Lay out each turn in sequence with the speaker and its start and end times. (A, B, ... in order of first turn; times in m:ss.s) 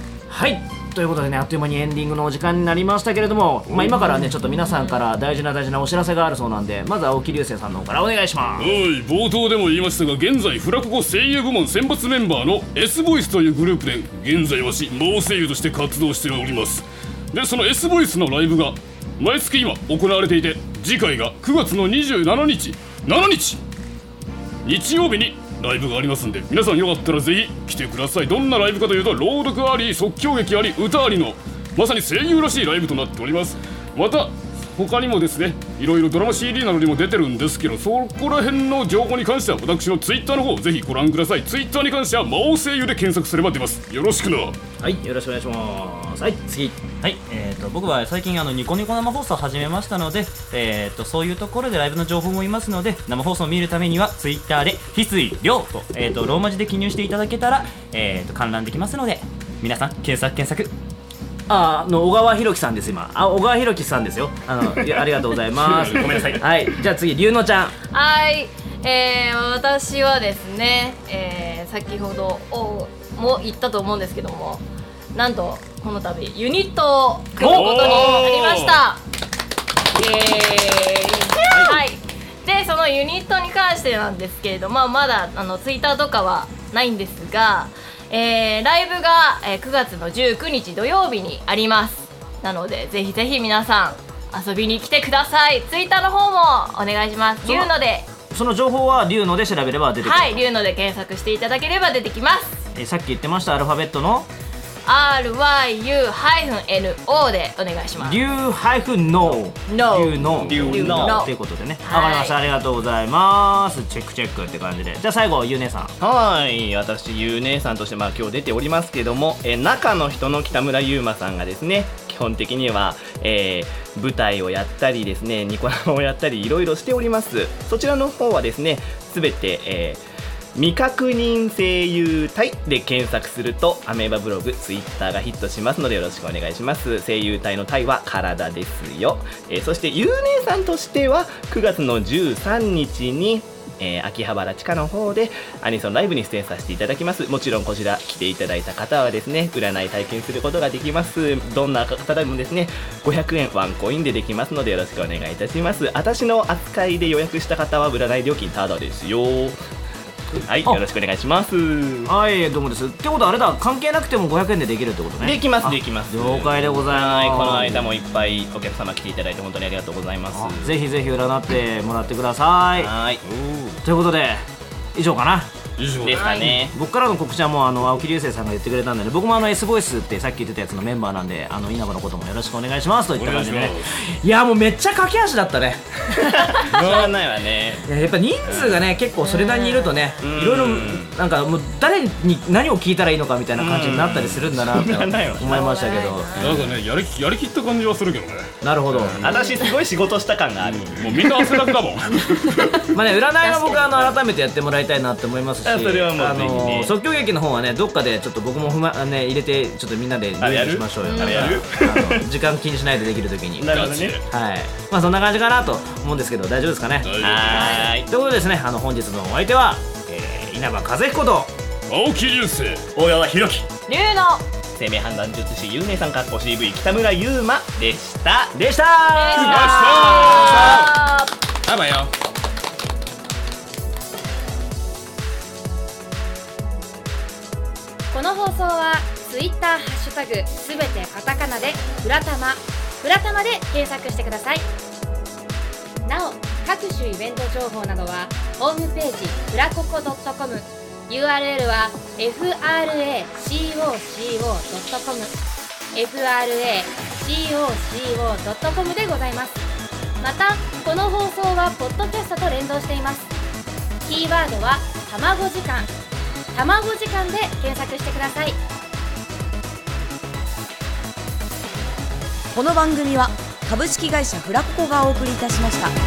0:00.3-0:08.7 A
0:03.7-0:04.0 B
0:04.2-0:05.0 C
0:08.6-0:23.6 B
0:24.6-0:44.6 B
0:44.8-0:46.8 A
0:47.0-1:00.7 D
1:01.5-1:07.8 A
1:05.5-1:06.5 D
1:07.9-1:14.6 C
1:15.2-1:19.0 C
1:17.4-1:18.8 B
1:17.4-1:18.2 A
1:19.9-1:38.1 C
1:21.3-1:21.8 E
1:37.4-1:37.7 A
1:38.3-1:40.4 A
1:40.0-1:42.6 C
1:42.8-1:44.3 A
1:44.8-1:48.2 C
1:48.0-1:56.0 A
1:49.7-1:52.4 C
1:50.3-1:50.8 B
1:50.4-1:51.3 E
1:56.0-2:10.0 E
2:10.6-2:39.6 E
2:40.4-2:42.1 E
2:42.1-2:47.8 A
2:45.2-2:50.7 E
2:50.3-2:52.9 A
2:52.8-2:53.2 E
2:53.3-2:53.8 B
2:53.8-2:54.4 A
2:55.0-2:55.5 A
2:55.8-2:56.6 B
2:56.0-2:56.7 E
2:56.2-2:56.5 C
2:56.2-3:05.8 A
3:03.2-3:03.9 B
3:06.3-3:07.8 E
3:06.7-3:07.1 B
3:07.9-3:16.5 A
3:08.5-3:08.8 E
3:09.2-3:10.2 C
3:10.2-3:11.2 E
3:13.6-3:15.7 E
3:15.4-3:16.7 C
3:16.4-3:18.5 B
3:18.6-3:19.2 A
3:18.9-3:21.1 E
3:19.2-3:19.7 C
3:20.7-3:22.8 B
3:22.3-3:22.8 C
3:22.9-3:41.5 A
3:23.4-3:24.1 C
3:25.6-3:27.0 E
3:30.4-3:32.3 E
3:31.0-3:31.6 C
3:33.6-3:34.2 E
3:33.7-3:34.2 B
3:37.0-3:37.8 B
3:37.2-3:38.1 E
3:37.5-3:37.9 C
3:41.9-3:42.8 B
3:43.0-3:43.7 D
3:43.9-3:44.5 C
3:44.8-3:48.6 E
3:48.6-3:50.6 A
3:49.2-3:51.3 C
3:49.4-3:50.7 B
3:50.3-3:51.0 D
3:51.7-3:52.1 D
3:58.1-4:04.6 F
4:06.1-4:15.3 F
4:15.9-4:19.6 F
4:20.2-4:23.3 F
4:24.0-4:25.9 F
4:26.5-4:28.6 F
4:32.5-4:35.9 G